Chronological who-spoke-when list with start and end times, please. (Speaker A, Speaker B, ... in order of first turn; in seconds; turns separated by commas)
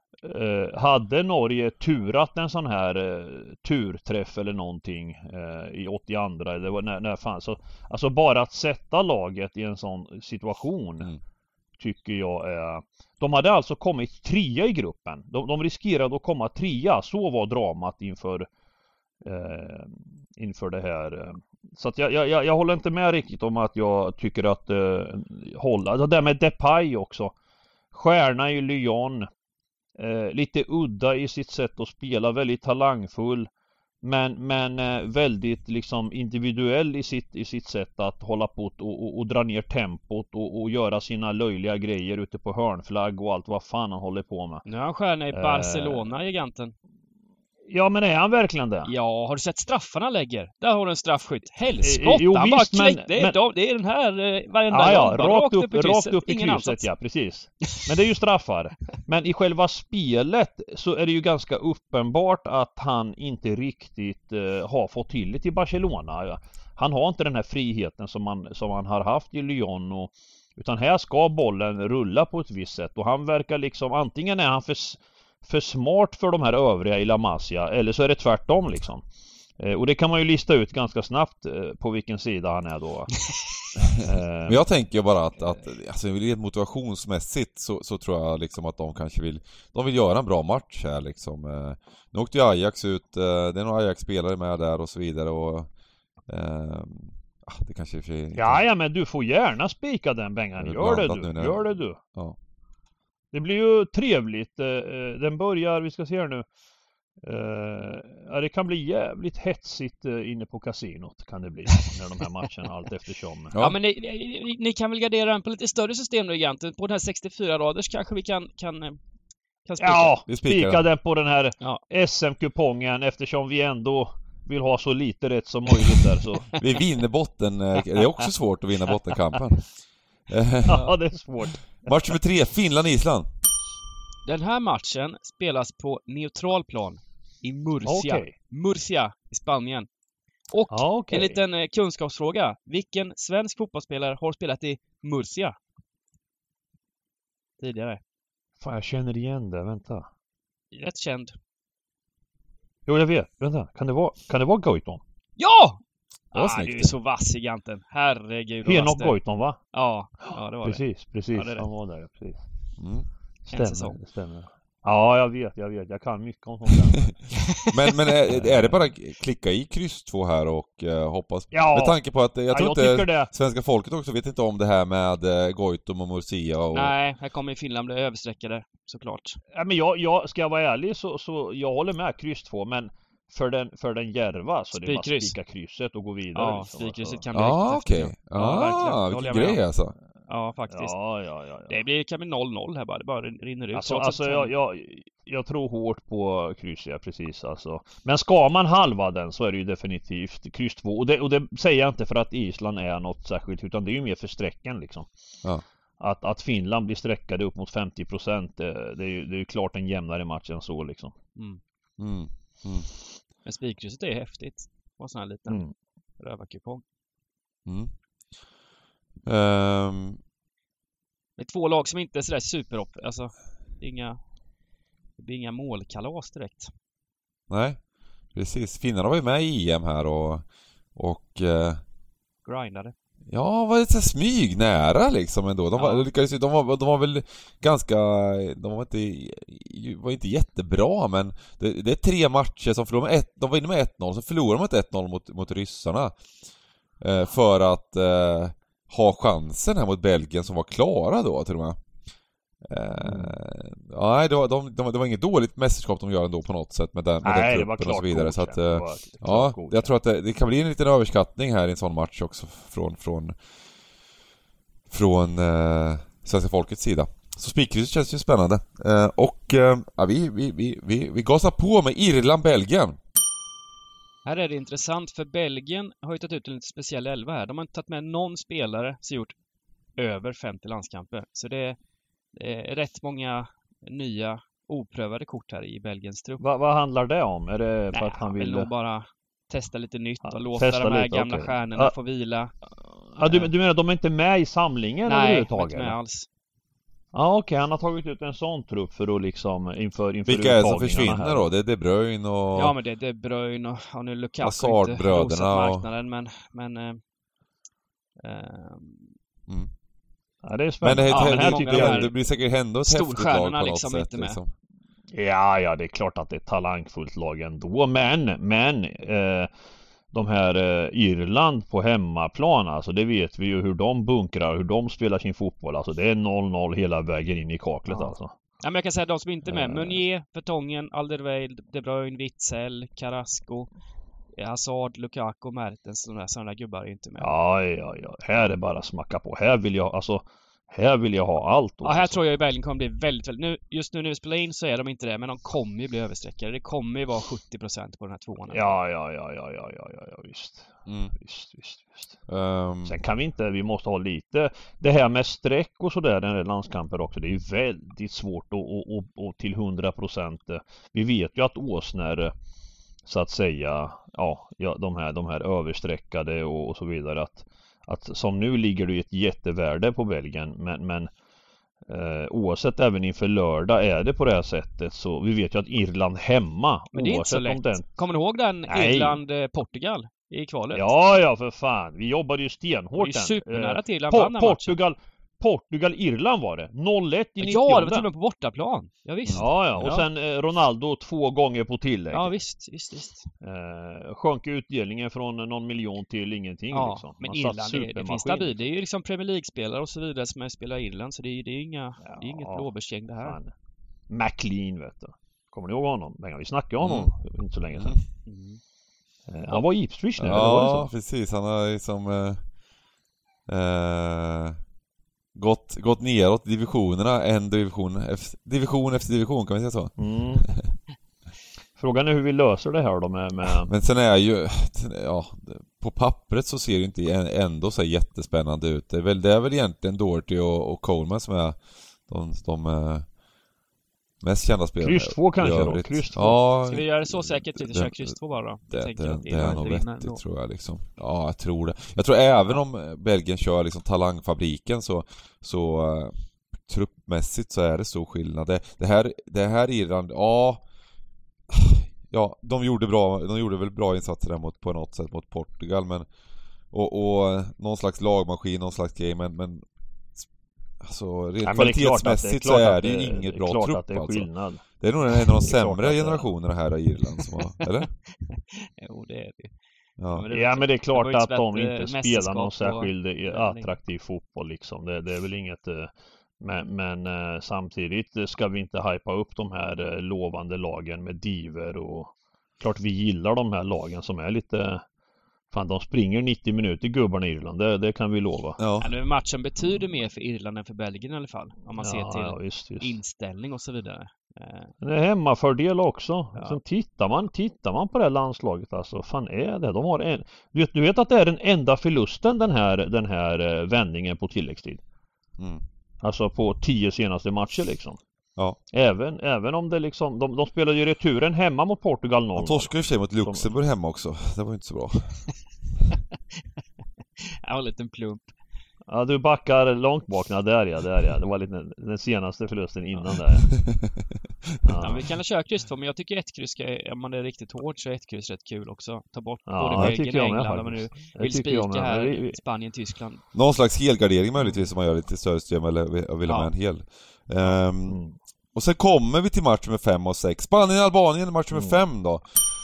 Speaker A: 0.2-11.1, Speaker A: 11.8-18.5, Speaker A: 19.2-27.3, Speaker A: 27.9-29.3, Speaker A: 30.0-33.5, Speaker A: 34.0-44.6, Speaker B: 44.6-46.7, Speaker A: 45.3-46.0, Speaker A: 47.7-48.9, Speaker B: 48.9-56.9, Speaker A: 51.8-53.4, Speaker A: 54.7-79.0, Speaker A: 79.6-83.2, Speaker A: 84.0-84.6, Speaker C: 84.5-95.7, Speaker C: 96.3-98.6, Speaker A: 98.3-102.0, Speaker C: 100.6-102.3, Speaker A: 103.3-106.5, Speaker A: 107.2-113.5, Speaker B: 113.6-119.0, Speaker B: 119.7-120.2, Speaker A: 119.8-126.5, Speaker C: 120.3-120.8, Speaker C: 126.5-129.7, Speaker C: 130.3-130.8, Speaker A: 130.7-132.1, Speaker C: 131.8-133.3, Speaker B: 134.2-139.9, Speaker A: 137.8-138.3, Speaker B: 140.5-145.6, Speaker A: 140.7-141.4, Speaker B: 147.6-148.0, Speaker A: 148.6-150.1, Speaker B: 150.7-151.3, Speaker A: 152.9-155.0, Speaker B: 155.4-155.8, Speaker B: 156.3-159.2, Speaker A: 156.3-156.9, Speaker A: 158.6-159.6, Speaker B: 159.7-161.7, Speaker A: 160.6-162.4, Speaker C: 162.8-163.1, Speaker A: 163.5-167.2, Speaker B: 163.5-164.0, Speaker C: 167.6-176.9, Speaker A: 168.3-168.8, Speaker A: 171.5-172.0, Speaker A: 172.5-173.3, Speaker B: 176.7-179.4, Speaker A: 179.5-187.2, Speaker B: 184.8-185.3, Speaker B: 186.3-189.6, Speaker C: 187.3-189.9, Speaker B: 190.3-190.9, Speaker A: 190.7-191.8, Speaker B: 191.7-194.5, Speaker A: 193.7-205.1, Speaker A: 206.0-211.2, Speaker C: 212.0-212.9, Speaker B: 213.4-215.6, Speaker B: 216.2-216.8, Speaker C: 217.7-217.9, Speaker C: 219.2-220.2, Speaker B: 221.4-224.2, Speaker B: 225.2-226.7, Speaker C: 227.5-227.8, Speaker C: 228.3-231.8, Speaker B: 232.4-232.9, Speaker C: 233.3-246.2, Speaker B: 235.8-236.1, Speaker C: 247.0-251.8, Speaker C: 252.6-263.4, Speaker A: 253.0-253.3, Speaker A: 257.2-259.9, Speaker C: 264.9-273.0, Speaker B: 274.2-279.3, Speaker B: 280.0-281.8, Speaker B: 282.3-286.4, Speaker A: 286.4-288.7, Speaker B: 287.9-292.5, Speaker A: 290.2-291.9, Speaker A: 293.1-295.9, Speaker B: 293.2-293.5, Speaker B: 295.0-296.3, Speaker A: 297.1-301.5, Speaker C: 300.3-302.8, Speaker B: 302.5-307.0, Speaker C: 304.4-305.8, Speaker B: 308.2-309.1, Speaker A: 310.4-312.1, Speaker C: 310.8-314.5, Speaker B: 311.1-312.2, Speaker B: 312.8-314.4, Speaker A: 315.1-319.5, Speaker A: 320.1-328.3, Speaker B: 327.9-333.7, Speaker A: 329.4-330.0, Speaker B: 334.4-337.3, Speaker A: 337.2-342.2, Speaker B: 341.8-348.7, Speaker A: 348.5-352.1, Speaker C: 350.9-351.1, Speaker C: 352.3-353.0, Speaker A: 352.8-362.3, Speaker A: 363.0-371.1, Speaker A: 371.9-377.8, Speaker B: 376.9-380.9, Speaker A: 378.7-379.2, Speaker A: 380.7-388.1, Speaker B: 383.0-384.8, Speaker B: 387.4-390.0, Speaker C: 389.3-389.9, Speaker A: 389.4-392.3, Speaker B: 392.1-393.3, Speaker A: 393.4-398.5, Speaker B: 396.7-403.4, Speaker A: 402.0-403.5, Speaker A: 404.1-408.0, Speaker C: 406.8-407.1, Speaker C: 407.8-408.0, Speaker B: 408.2-408.6, Speaker A: 409.3-410.9, Speaker C: 410.2-412.4, Speaker C: 413.5-414.6, Speaker C: 415.3-420.7, Speaker A: 420.0-420.5, Speaker A: 421.8-423.7, Speaker C: 423.7-433.1, Speaker C: 434.2-438.1, Speaker A: 434.8-436.4, Speaker B: 436.6-440.2, Speaker C: 438.7-450.6, Speaker C: 451.5-456.1, Speaker C: 456.7-459.6, Speaker C: 460.8-464.3, Speaker A: 461.4-464.6, Speaker C: 464.8-467.9, Speaker A: 465.3-466.3, Speaker B: 468.3-469.5, Speaker B: 470.1-473.8, Speaker A: 470.3-484.8, Speaker A: 485.5-488.6, Speaker C: 488.6-488.9, Speaker B: 488.8-494.7, Speaker A: 491.8-492.9, Speaker A: 494.8-504.8, Speaker A: 506.0-508.0, Speaker A: 508.7-513.5, Speaker C: 512.4-515.2, Speaker B: 517.2-518.3, Speaker A: 518.9-523.5, Speaker A: 524.6-525.1, Speaker B: 524.8-533.2, Speaker A: 529.5-532.4, Speaker C: 533.3-538.0, Speaker B: 536.2-536.5, Speaker A: 537.5-538.1, Speaker C: 538.5-542.2, Speaker A: 541.5-541.8